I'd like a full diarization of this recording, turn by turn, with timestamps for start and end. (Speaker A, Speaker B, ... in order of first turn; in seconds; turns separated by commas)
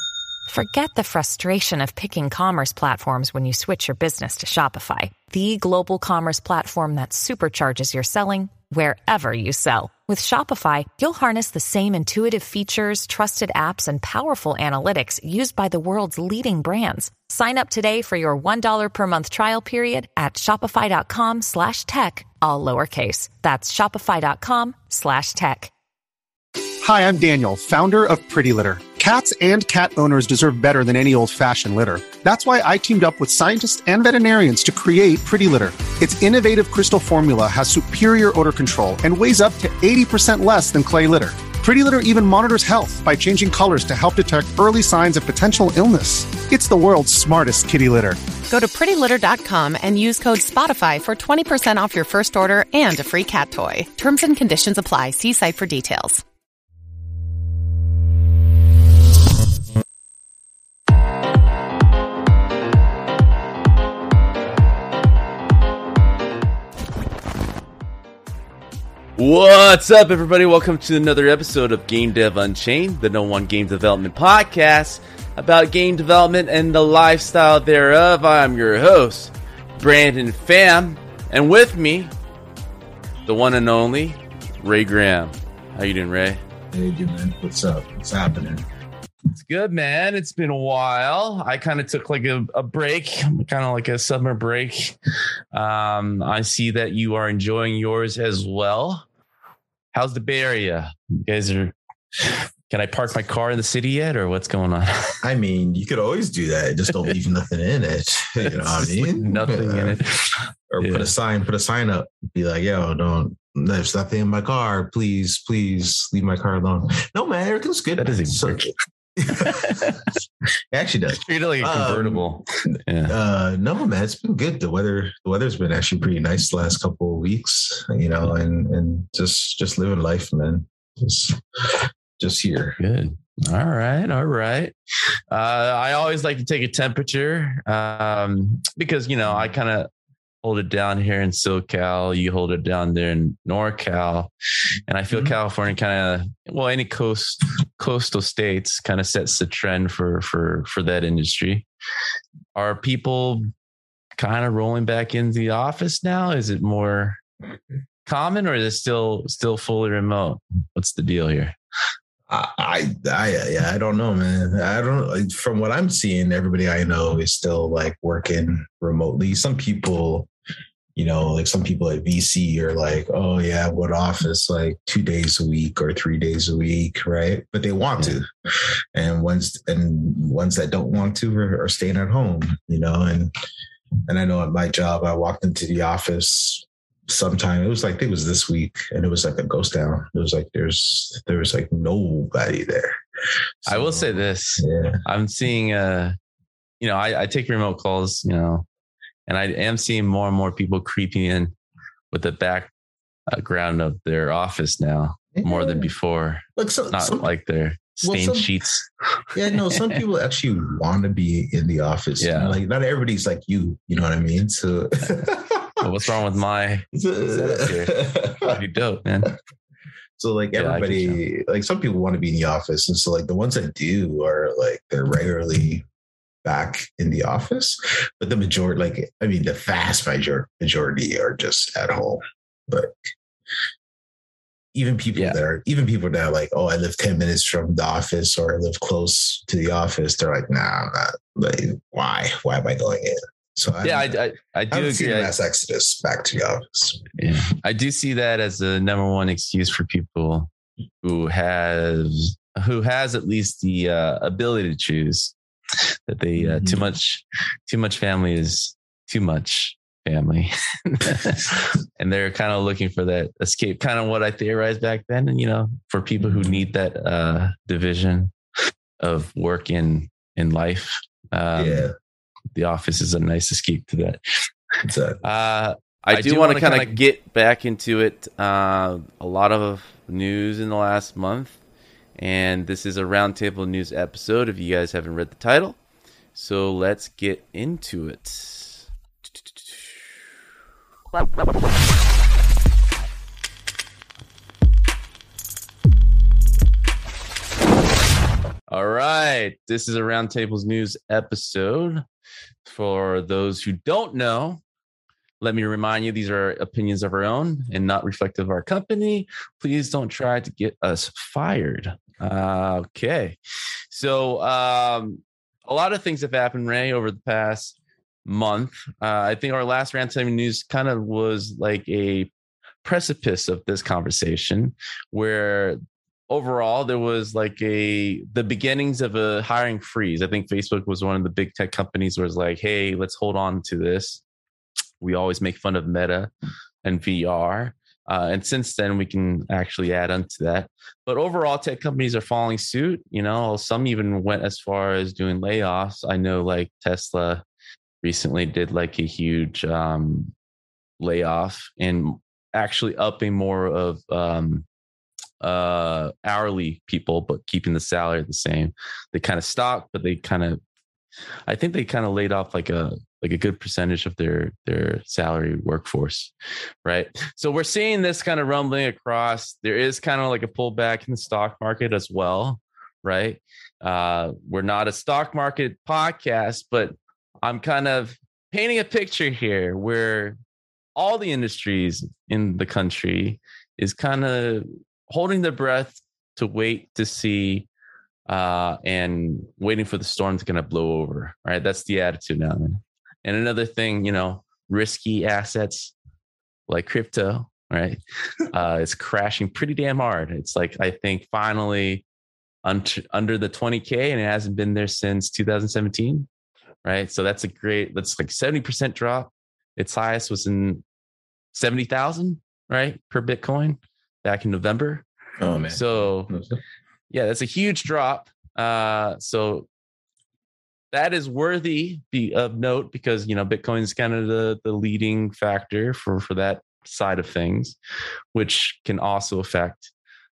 Speaker A: 0.5-25.7, Speaker B: 26.8-48.2, Speaker C: 48.5-56.2, Speaker D: 69.2-82.1, Speaker D: 83.3-86.4, Speaker E: 86.7-88.7, Speaker D: 89.3-95.0, Speaker D: 95.5-99.0, Speaker D: 99.9-101.8, Speaker D: 102.7-105.2, Speaker E: 105.2-110.0, Speaker D: 108.7-111.1, Speaker E: 110.7-120.0, Speaker D: 118.0-118.7, Speaker D: 119.3-120.0, Speaker E: 120.7-132.8, Speaker D: 121.1-123.2, Speaker D: 132.8-134.7, Speaker D: 135.3-139.9, Speaker D: 140.4-144.3, Speaker D: 144.9-151.7, Speaker E: 145.1-145.3, Speaker D: 152.6-153.5, Speaker D: 154.2-157.2, Speaker D: 158.1-161.6, Speaker E: 162.3-170.3, Speaker E: 171.0-178.3, Speaker E: 178.9-183.3, Speaker E: 184.1-193.0, Speaker E: 193.6-195.0, Speaker D: 193.7-196.2, Speaker D: 196.8-198.7, Speaker D: 199.3-201.5, Speaker D: 202.1-202.7, Speaker D: 203.3-208.8, Speaker E: 205.3-205.9, Speaker E: 206.6-207.3, Speaker E: 208.0-208.5, Speaker E: 209.3-215.9, Speaker D: 209.6-209.8, Speaker D: 212.2-212.6, Speaker D: 215.8-219.3, Speaker E: 216.9-218.6, Speaker E: 220.2-225.8, Speaker D: 220.6-221.2, Speaker E: 226.4-233.1, Speaker E: 234.7-244.2, Speaker D: 235.1-235.4, Speaker D: 243.8-245.3, Speaker E: 244.7-247.1, Speaker D: 247.2-250.5, Speaker D: 251.0-255.3, Speaker D: 256.1-268.3, Speaker E: 256.4-256.9, Speaker E: 266.2-266.6, Speaker D: 269.0-271.9, Speaker E: 271.6-271.9, Speaker D: 272.6-274.2, Speaker E: 274.9-275.2, Speaker D: 275.2-281.6, Speaker E: 276.1-277.0, Speaker D: 282.2-285.8, Speaker D: 286.4-290.0, Speaker D: 298.7-302.0, Speaker D: 302.6-304.6, Speaker D: 305.4-313.4, Speaker D: 313.9-317.7, Speaker D: 318.2-322.3, Speaker D: 322.8-334.2, Speaker D: 335.0-336.3, Speaker D: 336.8-347.4, Speaker D: 348.0-350.3, Speaker D: 351.0-354.6, Speaker D: 355.4-360.6, Speaker D: 361.5-366.3, Speaker D: 366.9-380.4, Speaker D: 380.9-387.7, Speaker D: 388.3-395.9, Speaker D: 396.7-402.0, Speaker D: 402.6-406.3, Speaker D: 406.8-410.8, Speaker D: 411.5-415.1, Speaker E: 415.4-416.6, Speaker D: 415.7-416.3, Speaker D: 417.1-419.7, Speaker D: 420.9-427.8, Speaker D: 428.3-429.9